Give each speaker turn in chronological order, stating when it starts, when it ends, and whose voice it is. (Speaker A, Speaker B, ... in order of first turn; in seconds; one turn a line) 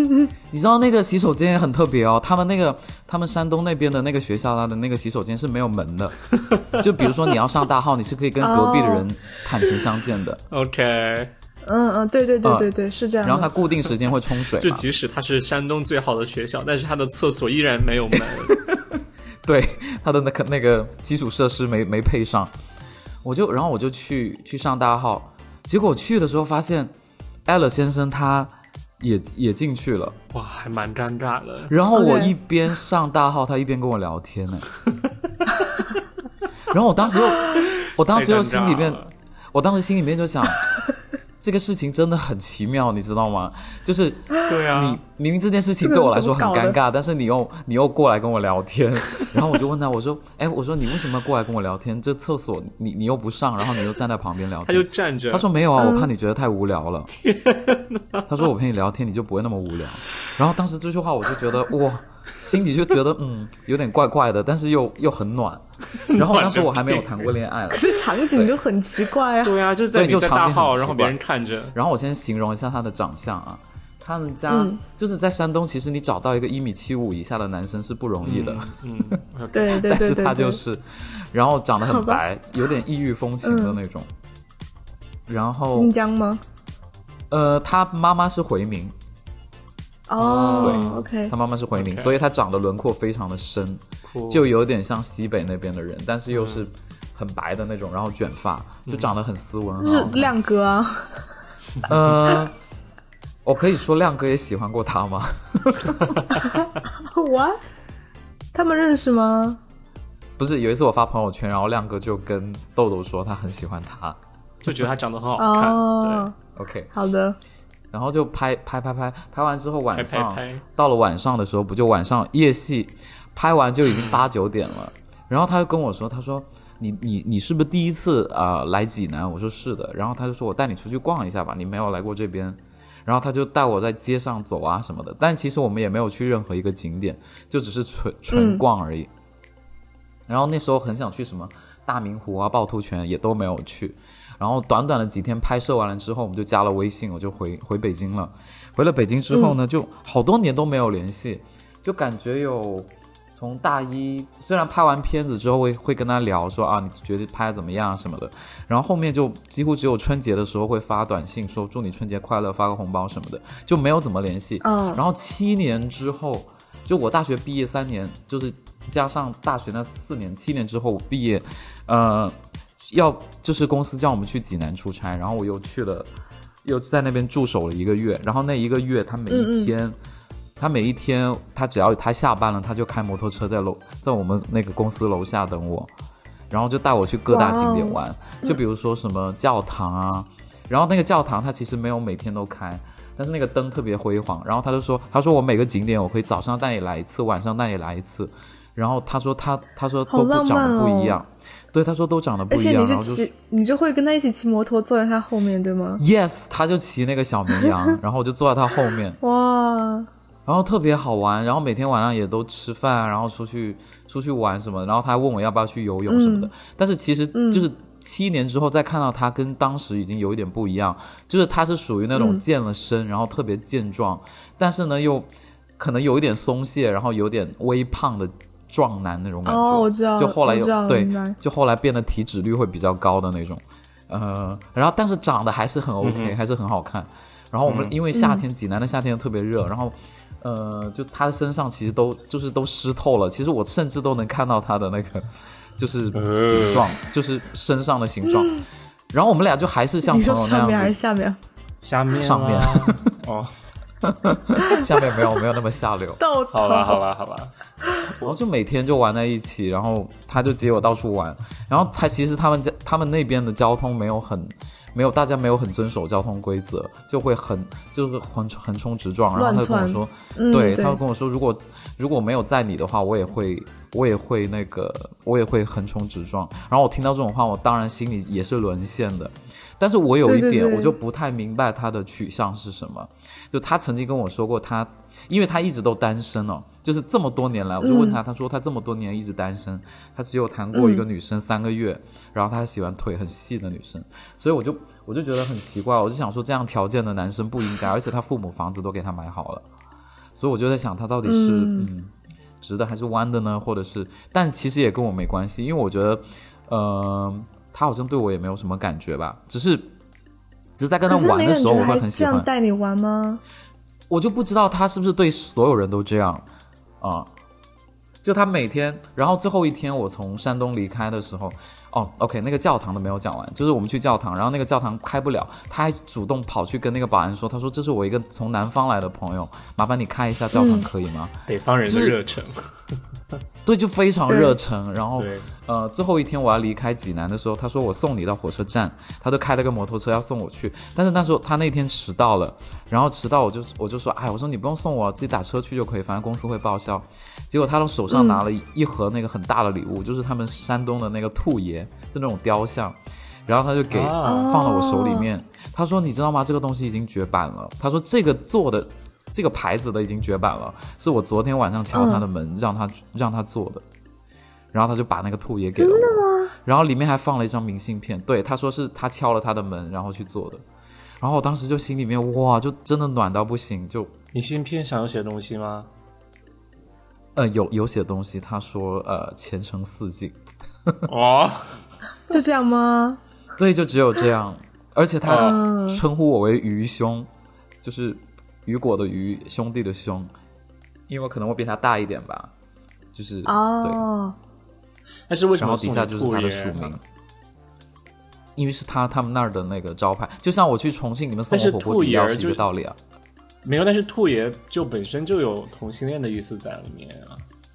Speaker A: 0.5-6.2
Speaker B: 6.3-7.3
Speaker A: 6.8-10.4
Speaker C: 8.4-9.1
Speaker B: 10.5-11.3
Speaker C: 11.7-13.5
Speaker A: 12.4-12.7
Speaker A: 13.2-14.8
Speaker B: 14.6-18.6
Speaker A: 18.2-22.5
Speaker A: 23.2-26.9
Speaker A: 27.4-30.1
Speaker B: 30.3-31.7
Speaker A: 31.7-34.7
Speaker C: 31.9-32.3
Speaker A: 36.7-39.0
Speaker B: 37.8-39.1
Speaker A: 39.5-40.6
Speaker A: 41.4-57.1
Speaker B: 44.5-45.0
Speaker C: 45.8-46.8
Speaker B: 54.6-55.5
Speaker C: 55.8-56.1
Speaker B: 57.1-58.3
Speaker A: 58.3-68.6
Speaker B: 65.9-67.2
Speaker C: 67.7-69.6
Speaker B: 69.4-71.8
Speaker A: 69.9-71.2
Speaker A: 71.7-79.2
Speaker C: 74.5-74.8
Speaker B: 78.2-79.8
Speaker C: 79.5-80.6
Speaker A: 79.7-84.1
Speaker C: 81.9-82.2
Speaker C: 83.4-83.8
Speaker A: 85.3-85.9
Speaker C: 85.7-86.4
Speaker A: 87.3-88.9
Speaker C: 90.1-91.3
Speaker B: 90.2-91.1
Speaker A: 90.6-100.3
Speaker B: 91.7-92.1
Speaker B: 94.1-94.5
Speaker B: 96.3-96.7
Speaker B: 98.8-99.1
Speaker C: 99.8-101.3
Speaker A: 101.9-102.5
Speaker A: 103.4-106.4
Speaker B: 106.3-106.6
Speaker C: 106.9-107.6
Speaker C: 108.5-109.6
Speaker A: 110.4-114.2
Speaker B: 114.6-116.3
Speaker C: 115.4-116.3
Speaker A: 116.5-116.9
Speaker C: 116.9-117.4
Speaker A: 117.9-139.1
Speaker B: 119.9-120.6
Speaker B: 123.9-124.2
Speaker C: 138.3-138.6
Speaker A: 140.3-176.1
Speaker C: 149.3-149.6
Speaker C: 164.6-165.0
Speaker A: 176.6-179.9
Speaker C: 179.3-179.7
Speaker A: 180.6-185.9
Speaker A: 186.5-203.3
Speaker C: 187.3-188.6
Speaker C: 200.1-201.2
Speaker C: 202.5-206.0
Speaker A: 206.0-209.2
Speaker C: 207.6-207.9
Speaker C: 209.2-210.1
Speaker A: 210.4-245.3
Speaker C: 216.1-216.5
Speaker C: 217.3-217.7
Speaker C: 222.1-222.4
Speaker C: 229.4-231.4
Speaker B: 236.0-236.3
Speaker B: 237.7-237.9
Speaker C: 238.1-238.4
Speaker A: 245.8-250.9
Speaker B: 246.1-246.9
Speaker C: 250.1-251.4
Speaker B: 251.8-253.5
Speaker A: 252.1-253.1
Speaker A: 254.0-256.2
Speaker C: 254.6-255.0
Speaker C: 256.2-257.0
Speaker B: 256.5-257.5
Speaker A: 258.2-299.6
Speaker C: 269.4-271.0
Speaker C: 280.2-280.9
Speaker C: 287.8-288.2
Speaker C: 290.7-291.0
Speaker A: 300.3-309.9
Speaker C: 301.2-301.9
Speaker A: 310.8-312.5
Speaker C: 311.1-313.4
Speaker A: 314.1-316.4
Speaker A: 317.0-317.3
Speaker A: 318.2-331.3
Speaker C: 330.5-330.9
Speaker B: 331.5-333.0
Speaker A: 331.9-332.2
Speaker A: 333.6-363.8
Speaker C: 334.3-334.5
Speaker B: 335.1-335.5
Speaker C: 348.1-348.4
Speaker B: 353.9-354.5
Speaker C: 354.2-355.3
Speaker C: 361.9-362.2
Speaker A: 364.7-370.6
Speaker C: 365.8-366.5
Speaker A: 371.2-374.1
Speaker B: 374.3-375.9
Speaker A: 377.3-381.1
Speaker B: 381.1-381.8
Speaker C: 382.3-383.2
Speaker A: 383.6-387.3
Speaker B: 385.2-385.6
Speaker C: 385.3-386.0
Speaker A: 387.8-390.3
Speaker A: 391.1-392.5
Speaker A: 393.1-394.0
Speaker C: 393.4-394.3
Speaker B: 395.3-396.9
Speaker A: 395.6-397.0
Speaker A: 398.6-402.9
Speaker B: 401.5-402.6
Speaker B: 403.6-407.4